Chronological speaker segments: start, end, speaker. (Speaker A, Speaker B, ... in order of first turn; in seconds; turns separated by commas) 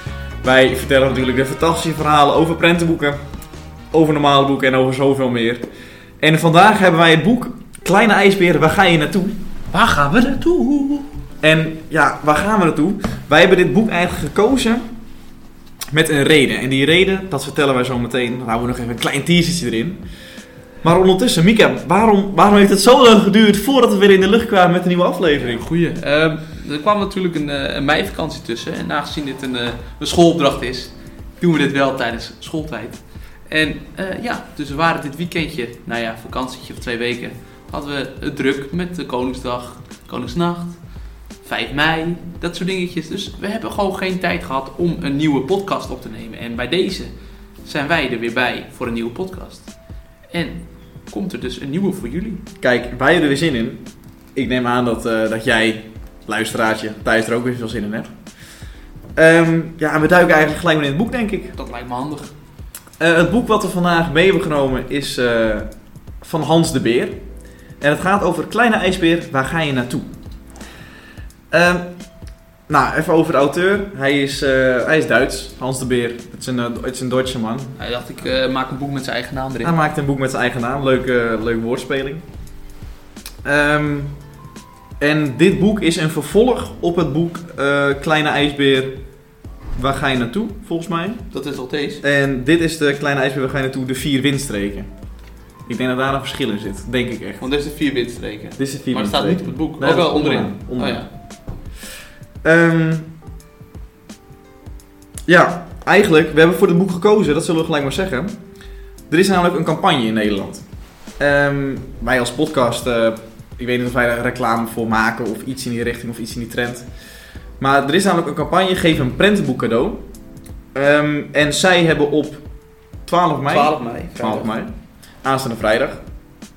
Speaker A: 0.4-3.2, Speaker A: 3.9-5.7, Speaker A: 6.2-9.3, Speaker B: 9.7-11.1, Speaker A: 11.4-14.8, Speaker A: 15.9-20.0, Speaker A: 20.8-25.6, Speaker B: 25.3-40.8, Speaker B: 41.4-47.1, Speaker B: 47.6-49.7, Speaker B: 50.3-52.4, Speaker A: 52.6-53.8, Speaker A: 54.4-58.1, Speaker A: 59.2-61.5, Speaker B: 61.6-62.3, Speaker A: 63.0-65.7, Speaker A: 66.2-67.1, Speaker A: 67.8-70.1, Speaker A: 71.5-71.9, Speaker A: 72.7-77.8, Speaker B: 77.8-79.8, Speaker A: 79.6-82.2, Speaker A: 83.4-84.1, Speaker A: 85.0-89.0, Speaker A: 89.8-91.2, Speaker B: 91.3-92.0, Speaker A: 92.0-94.9, Speaker A: 95.7-97.4, Speaker B: 97.4-101.1, Speaker A: 98.6-101.0, Speaker A: 102.4-103.1, Speaker A: 105.3-108.3, Speaker A: 109.1-110.6, Speaker A: 111.2-116.9, Speaker A: 117.6-120.0, Speaker A: 120.7-122.4, Speaker A: 123.1-126.0, Speaker B: 123.5-124.5